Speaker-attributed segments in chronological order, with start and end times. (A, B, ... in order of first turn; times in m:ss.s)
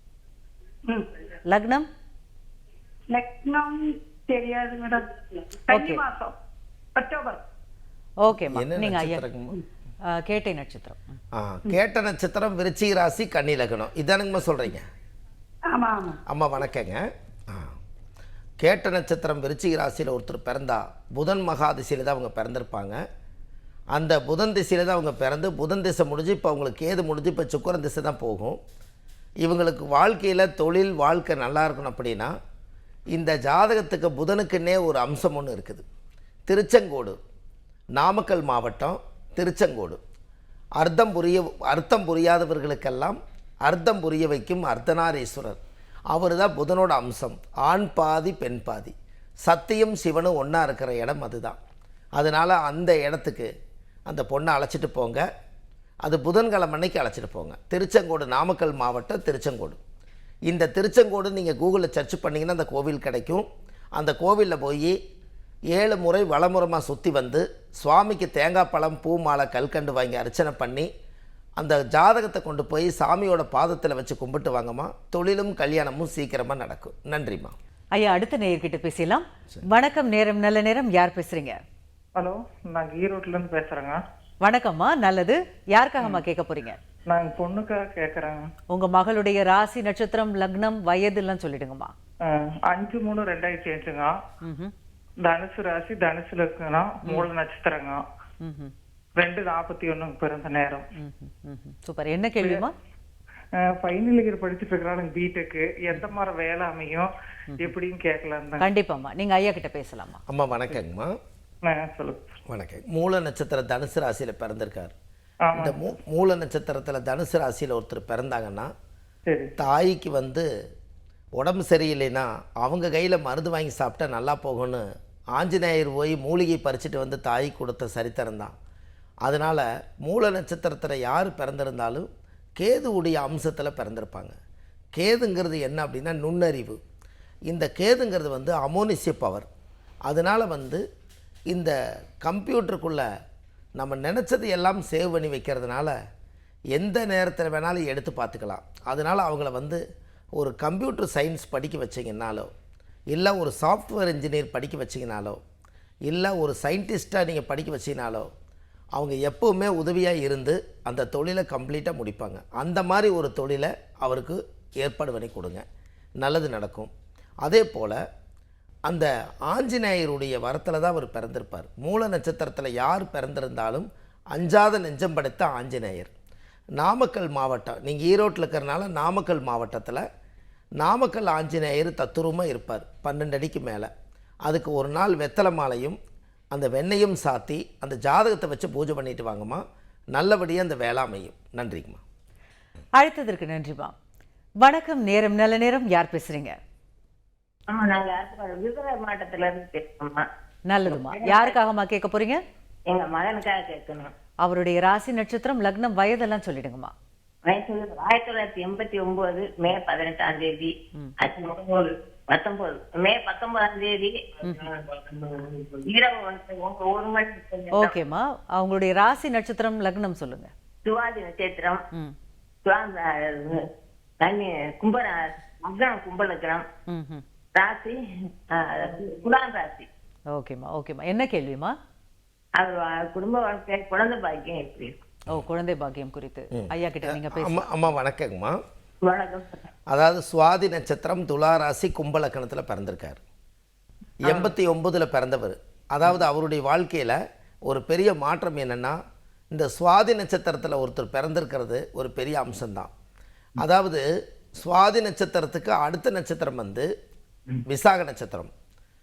0:01.5-0:01.9 A
0:03.1-0:06.3 B
0:05.7-0:06.0 A
0:07.0-0:07.4 B
0:08.2-0:09.2 A
0:08.4-0:09.6 C
0:10.1-0:11.2 A
0:11.3-0:14.9 C
0:15.7-0:16.2 B
0:16.3-0:17.8 C
0:18.6-0:23.0 C
0:23.9-0:28.6 C
0:29.4-0:32.3 C
0:33.2-0:35.8 C
0:36.5-0:37.2 C
0:38.0-0:40.0 C
0:40.8-0:45.6 C
0:46.1-0:51.6 C
0:52.2-0:53.5 C
0:54.1-0:55.3 C
0:56.0-0:59.8 C
1:00.5-1:05.0 C
1:05.7-1:10.9 C
1:11.6-1:17.6 C
1:18.0-1:21.6 A
1:22.2-1:24.0 D
1:24.4-1:26.8 A
1:27.1-1:28.4 D
1:28.7-1:31.9 A
1:32.3-1:34.1 D
1:34.4-1:34.7 A
1:35.2-1:38.0 D
1:38.4-1:38.7 A
1:39.2-1:40.8 D
1:41.0-1:42.7 A
1:42.4-1:42.6 D
1:43.6-1:47.1 D
1:47.6-1:48.7 D
1:48.6-1:50.2 A
1:50.3-1:51.2 C
1:51.6-1:52.2 D
1:52.5-1:54.9 C
1:55.5-1:55.8 D
1:55.6-1:58.7 C
1:59.3-1:59.5 D
1:59.6-2:00.5 C
2:01.4-2:08.5 C
2:09.2-2:14.3 C
2:15.0-2:16.8 C
2:17.5-2:19.5 C
2:20.1-2:20.8 C
2:21.5-2:23.1 C
2:23.8-2:26.0 C
2:26.7-2:29.8 C
2:30.4-2:32.5 C
2:33.1-2:35.4 C
2:36.1-2:38.3 C
2:38.9-2:45.6 C
2:46.2-2:46.9 C
2:47.4-2:48.0 C
2:48.9-2:56.1 C
2:56.8-3:00.0 C
3:00.8-3:03.9 C
3:04.4-3:06.0 C
3:06.5-3:12.0 C
3:13.0-3:13.9 A
3:14.6-3:16.6 A
3:17.7-3:20.3 E
3:20.7-3:22.4 A
3:20.9-3:21.6 E
3:22.9-3:24.1 E
3:24.4-3:26.9 A
3:27.5-3:37.9 E
3:37.7-3:40.5 A
3:40.8-3:41.8 E
3:42.6-3:43.7 E
3:44.2-3:46.6 E
3:46.9-3:47.2 A
3:47.6-3:48.0 E
3:48.5-3:49.9 E
3:50.3-3:51.8 A
3:52.6-3:55.0 E
3:55.3-3:57.7 A
3:56.5-3:58.6 C
3:59.0-3:59.6 E
3:59.9-4:03.2 C
4:04.2-4:09.0 C
4:09.5-4:12.9 C
4:13.6-4:14.0 C
4:14.6-4:16.9 C
4:17.7-4:18.5 C